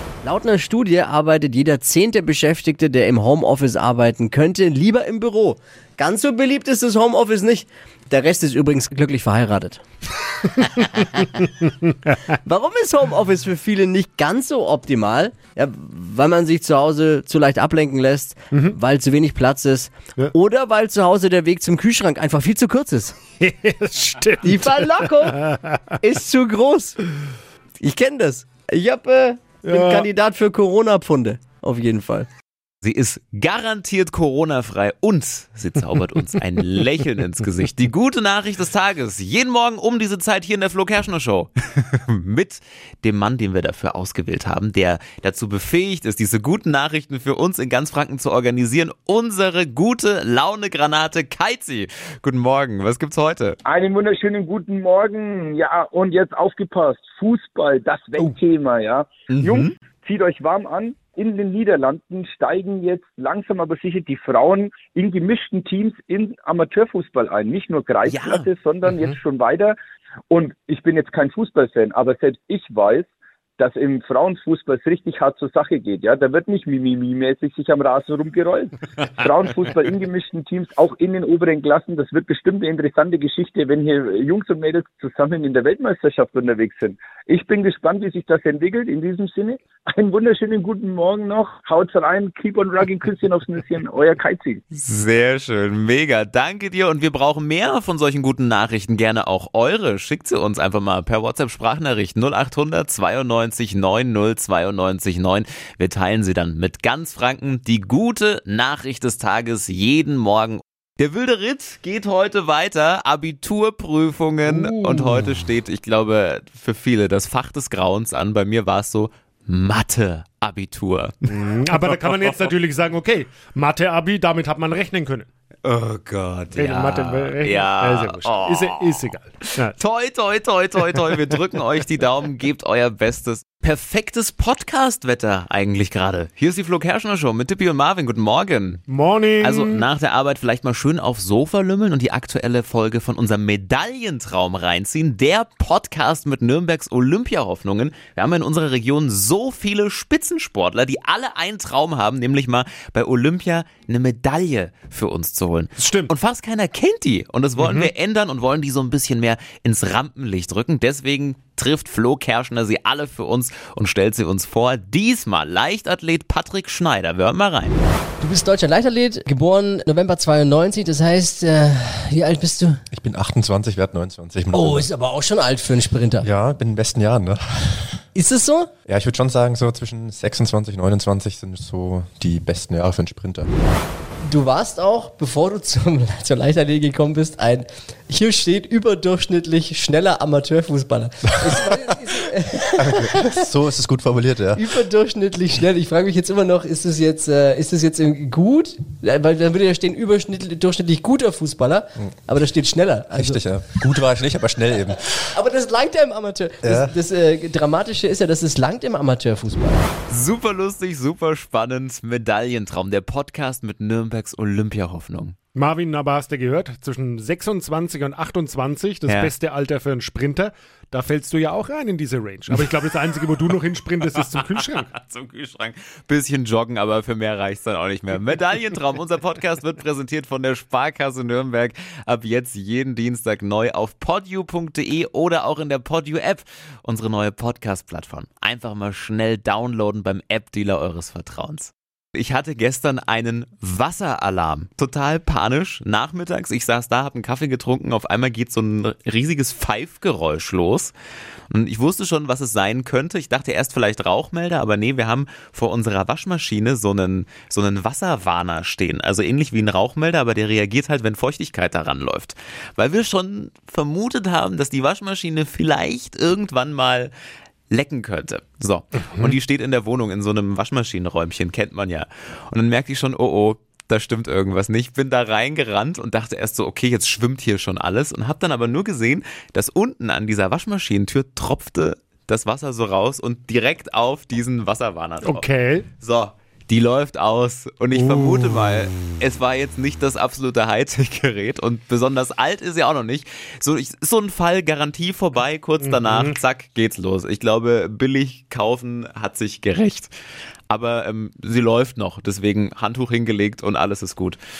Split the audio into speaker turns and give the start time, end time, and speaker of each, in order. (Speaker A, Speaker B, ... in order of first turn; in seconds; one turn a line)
Speaker A: 0.2-9.8
Speaker A: 10.5-11.5
Speaker B: 11.9-12.1
Speaker A: 12.4-23.2
Speaker B: 23.4-25.8
Speaker A: 24.4-25.4
Speaker A: 26.0-27.0
Speaker A: 27.8-32.3
Speaker B: 29.6-30.1
Speaker C: 32.8-53.6
Speaker D: 53.6-69.8
Speaker C: 59.3-59.7
Speaker C: 68.0-68.5
Speaker D: 70.3-73.1
Speaker D: 73.6-94.6
Speaker C: 94.7-122.3
Speaker B: 114.5-115.1
Speaker B: 121.3-125.3
Speaker C: 125.6-138.8
Speaker B: 126.6-129.8
Speaker B: 138.9-139.8
Speaker C: 139.4-167.8
Speaker B: 155.8-156.1
Speaker B: 157.6-157.9
Speaker A: 168.2-172.8
Speaker E: 172.9-174.9
Speaker A: 174.5-176.3
Speaker E: 176.2-178.0
Speaker A: 178.2-178.7
Speaker E: 178.9-183.5
Speaker A: 184.3-193.5
Speaker E: 192.8-194.7
Speaker A: 194.5-203.4
Speaker E: 203.2-205.0
Speaker A: 205.3-209.8
Speaker E: 206.6-206.9
Speaker C: 210.1-215.3
Speaker B: 215.6-224.9
Speaker C: 219.1-219.3
Speaker C: 222.5-222.9
Speaker C: 224.0-250.9
Speaker C: 251.5-267.1
Speaker C: 267.7-285.4
Speaker B: 285.2-285.9
Speaker C: 286.0-300.1
Speaker B: 288.0-288.9
Speaker B: 295.8-296.4
Speaker C: 300.7-304.4